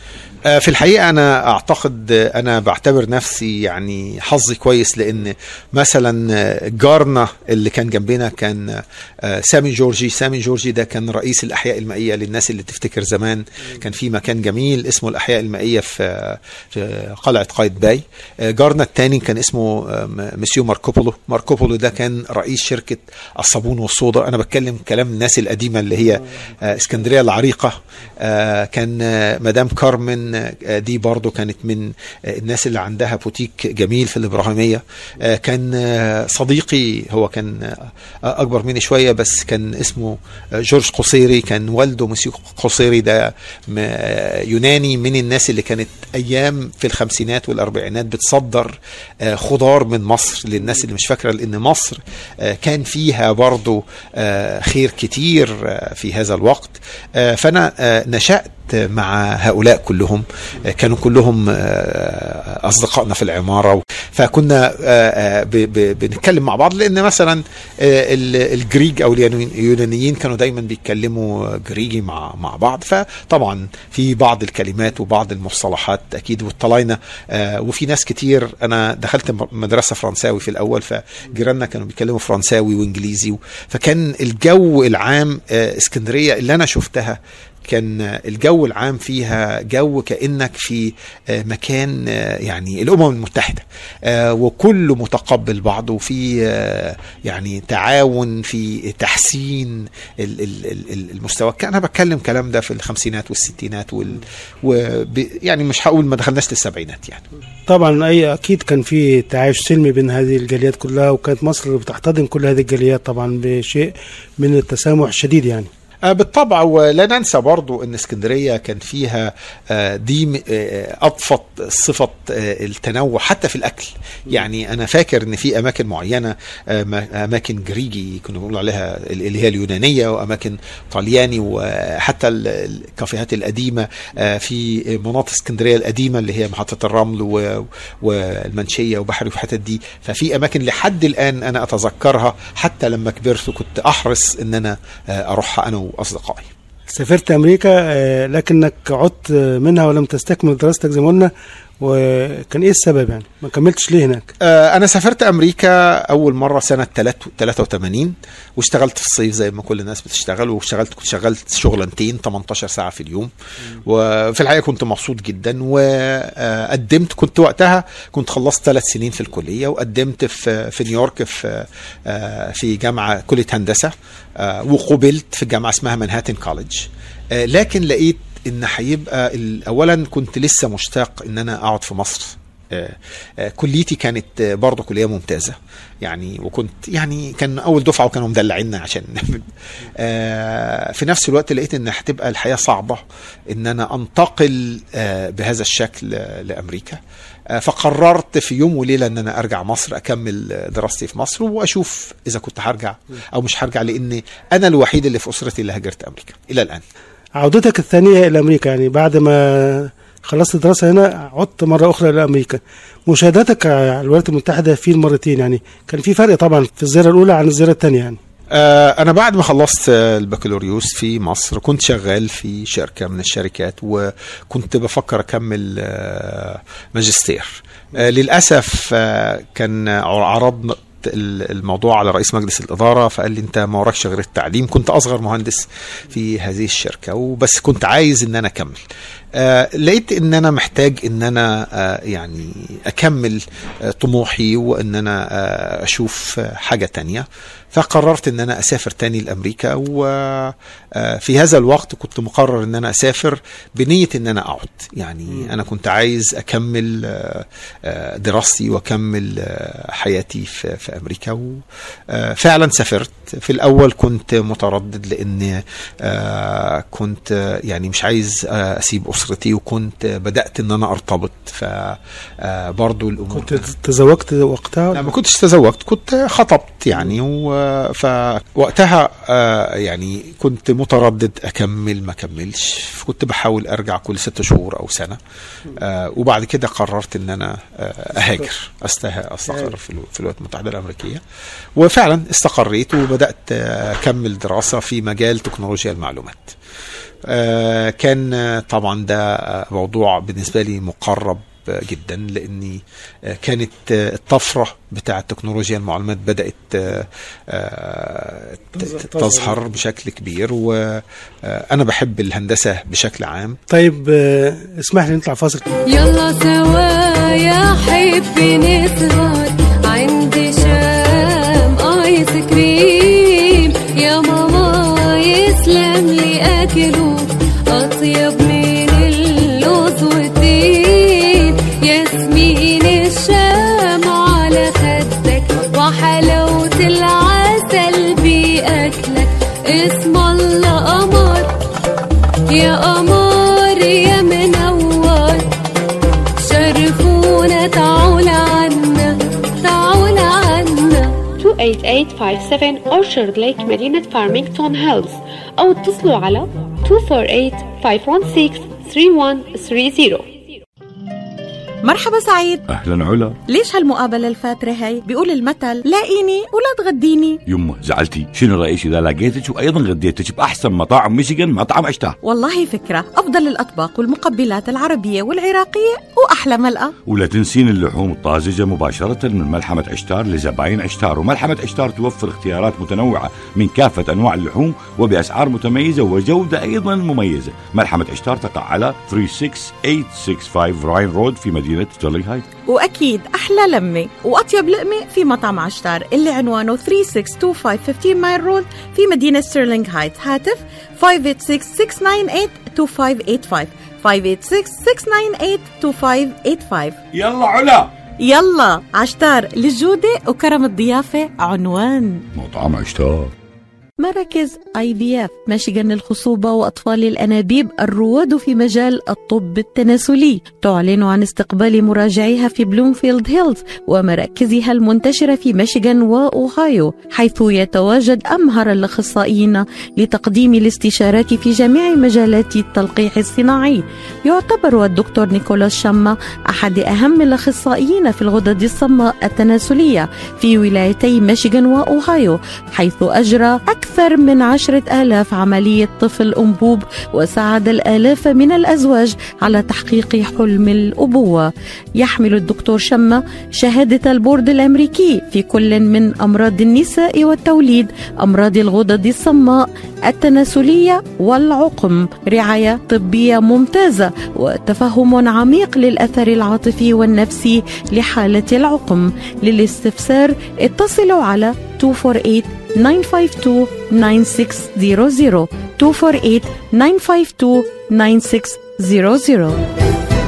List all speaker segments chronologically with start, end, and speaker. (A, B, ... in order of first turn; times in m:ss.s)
0:00.5-1:47.2 A
1:47.7-1:55.7 B
1:56.1-2:26.5 A
2:26.9-2:34.3 B
2:34.4-2:43.3 A
2:43.9-3:17.0 A
3:17.5-3:26.8 A
3:27.4-3:38.2 B
3:38.5-3:58.8 A
3:59.4-4:33.7 A
4:33.3-4:35.1 B
4:34.9-4:45.2 A
4:45.8-4:51.2 A
4:51.8-4:56.6 A
4:57.3-5:13.6 A
5:08.8-5:09.6 B
5:13.7-5:15.6 B
5:15.9-5:41.6 C
5:42.5-5:45.5 C
5:46.4-5:51.3 C
5:51.4-6:00.3 D
6:01.8-6:02.6 E
6:02.7-6:03.4 F
6:03.5-6:07.4 E
6:07.5-6:12.2 F
6:12.2-6:17.0 E
6:17.1-6:32.5 F
6:32.7-6:47.0 E
6:47.2-6:47.7 F
6:48.2-6:52.3 E
6:52.4-6:53.3 F
6:54.0-7:59.6 E